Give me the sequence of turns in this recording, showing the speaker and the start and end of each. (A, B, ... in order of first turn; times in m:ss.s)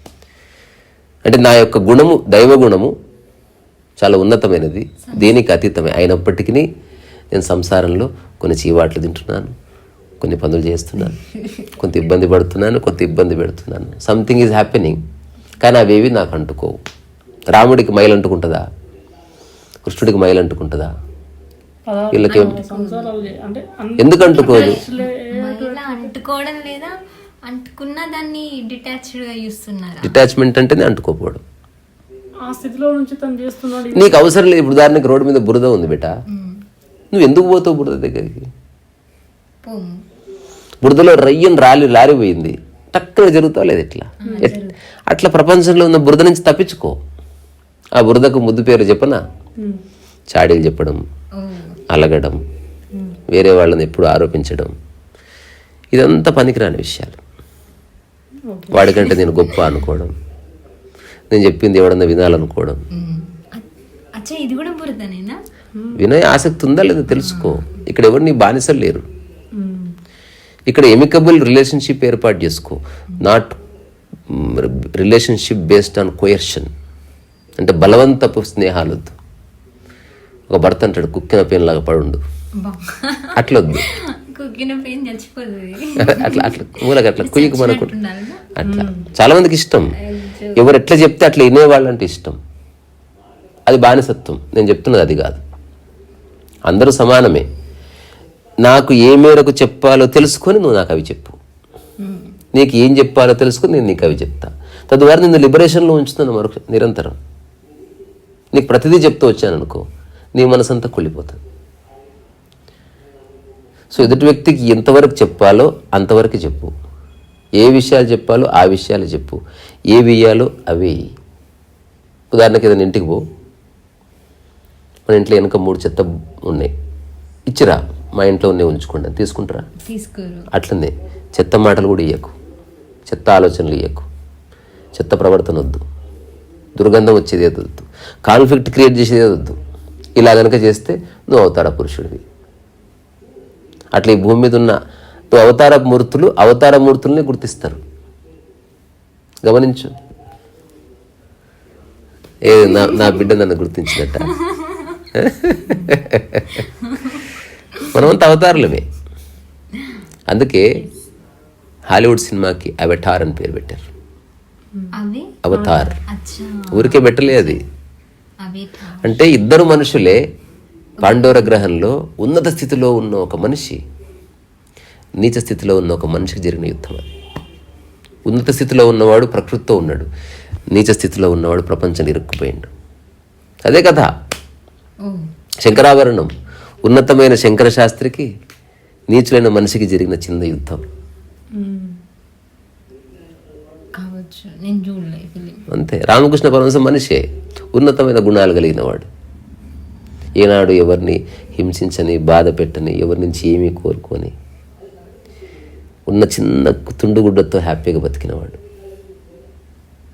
0:01.2-0:02.9 A
0:04.0-0:06.7 A
0:05.0-0:05.3 B
0:07.3-0:09.5 A
0:10.2-0:11.2 A
0:11.2-0:11.7 B
0:11.8-0:15.0 A
0:15.6-0:16.8 A
0:17.5-0:18.6 A
0:19.9-0:20.9 A
0:21.9-0:26.2 C
0:22.1-0:22.6 A
0:22.3-0:23.1 B
0:24.0-0:24.8 A
0:24.3-0:30.2 B
0:30.0-0:31.4 A
0:32.4-0:34.4 C
0:33.9-0:36.1 A
0:36.3-0:36.6 B
0:37.1-0:38.5 A
0:39.6-0:40.0 B
0:40.8-0:47.0 A
0:44.2-0:44.8 B
0:44.2-0:44.6 C
0:48.0-0:49.2 A
0:49.6-0:49.8 C
0:50.3-0:51.0 A
0:51.4-0:51.8 B
0:51.9-0:52.4 A
0:52.9-0:53.2 C
0:53.3-0:54.7 A
0:55.9-0:57.2 A
0:58.5-0:58.9 C
0:58.7-1:00.1 A
1:01.3-1:02.8 A
1:02.9-1:05.4 B
1:05.7-1:06.0 C
1:06.0-1:09.1 A
1:07.2-1:07.6 B
1:09.6-1:10.0 C
1:10.7-1:13.6 A
1:14.3-1:16.7 A
1:17.6-1:19.2 A
1:20.5-1:22.2 A
1:22.6-1:28.4 B
1:23.4-1:23.8 A
1:26.0-1:27.9 A
1:28.6-1:29.9 A
1:28.6-1:29.1 C
1:30.0-1:30.6 B
1:30.6-1:32.4 A
1:33.7-1:35.4 A
1:36.7-1:37.5 A
1:38.6-1:41.4 A
1:42.0-1:42.4 B
1:42.5-1:47.2 A
1:48.5-1:51.4 A
1:53.9-1:56.7 A
1:57.6-1:59.4 A
1:59.9-2:01.0 A
2:02.3-2:03.2 A
2:05.1-2:06.7 A
2:07.5-2:09.7 A
2:09.8-2:10.5 B
2:10.5-2:12.4 A
2:13.1-2:14.1 A
2:15.0-2:15.8 A
2:16.8-2:19.6 A
2:20.2-2:22.2 A
2:23.9-2:24.8 A
2:25.3-2:27.8 A
2:29.4-2:29.9 A
2:32.4-2:34.3 A
2:32.5-2:33.3 B
2:34.0-2:35.0 B
2:35.1-2:36.7 A
2:36.8-2:37.2 B
2:37.9-2:38.8 A
2:40.3-2:40.8 A
2:41.9-2:43.9 A
2:44.9-2:45.4 B
2:45.4-2:46.0 A
2:45.5-2:45.9 C
2:46.1-2:47.6 B
2:46.7-2:47.6 A
2:48.4-2:49.2 B
2:49.0-2:50.3 A
2:51.0-2:51.6 B
2:51.0-2:53.8 A
2:55.2-2:57.1 A
2:58.3-3:00.1 A
3:00.7-3:02.7 A
3:03.6-3:04.1 A
3:05.0-3:05.3 B
3:05.6-3:06.3 A
3:06.8-3:08.3 A
3:09.1-3:10.9 A
3:11.5-3:12.0 C
3:14.0-3:15.6 B
3:15.7-3:19.1 A
3:20.4-3:24.3 A
3:26.1-3:28.6 A